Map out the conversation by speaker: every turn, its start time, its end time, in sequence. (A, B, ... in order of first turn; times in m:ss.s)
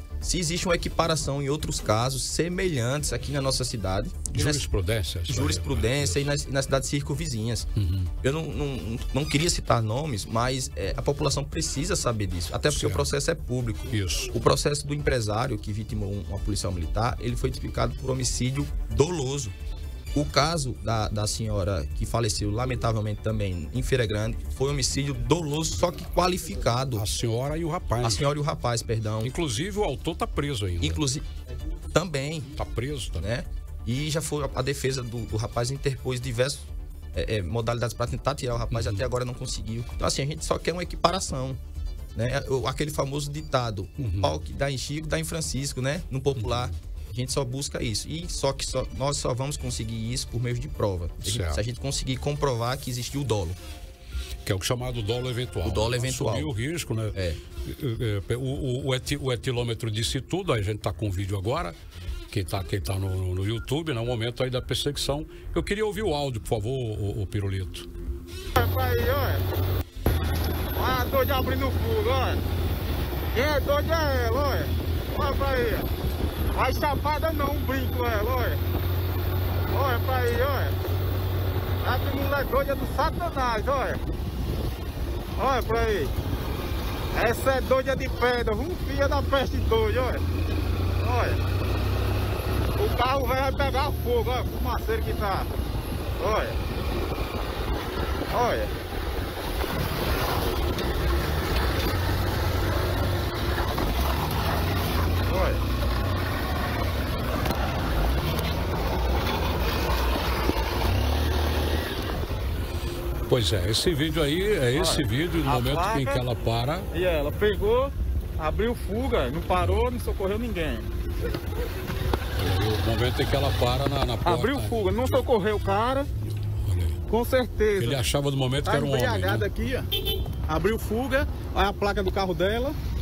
0:00.2-0:04.6 A
0:04.3-0:06.2 B
0:05.3-0:07.7 A
0:07.8-0:08.1 B
0:08.2-0:19.5 A
0:12.7-0:13.0 B
0:13.9-0:14.3 B
0:20.1-0:27.0 A
0:26.9-0:28.3 B
0:28.0-0:29.3 A
0:29.2-0:31.0 B
0:30.8-0:31.3 A
0:31.9-0:32.5 A
0:32.5-0:33.3 B
0:33.2-0:41.6 A
0:38.7-0:39.0 B
0:42.1-0:53.6 A
0:44.0-0:44.4 B
0:46.4-0:46.7 B
0:51.2-0:51.6 B
0:54.4-1:01.8 B
0:55.6-0:56.5 A
0:57.1-0:57.4 A
1:02.3-1:07.9 B
1:08.5-1:09.4 C
1:10.7-1:12.4 C
1:13.3-1:15.9 C
1:16.5-1:18.6 C
1:19.7-1:20.8 C
1:21.8-1:24.0 C
1:25.3-1:26.1 C
1:27.1-1:30.2 C
1:31.0-1:31.4 C
1:32.8-1:35.6 C
1:36.2-1:36.6 C
1:38.3-1:38.7 C
1:45.2-1:45.6 C
1:53.3-1:56.9 B
1:54.7-1:56.2 C
1:56.9-2:00.9 C
2:02.3-2:04.9 B
2:04.2-2:06.1 C
2:06.6-2:07.0 B
2:07.1-2:08.0 C
2:07.8-2:09.5 B
2:08.6-2:12.8 C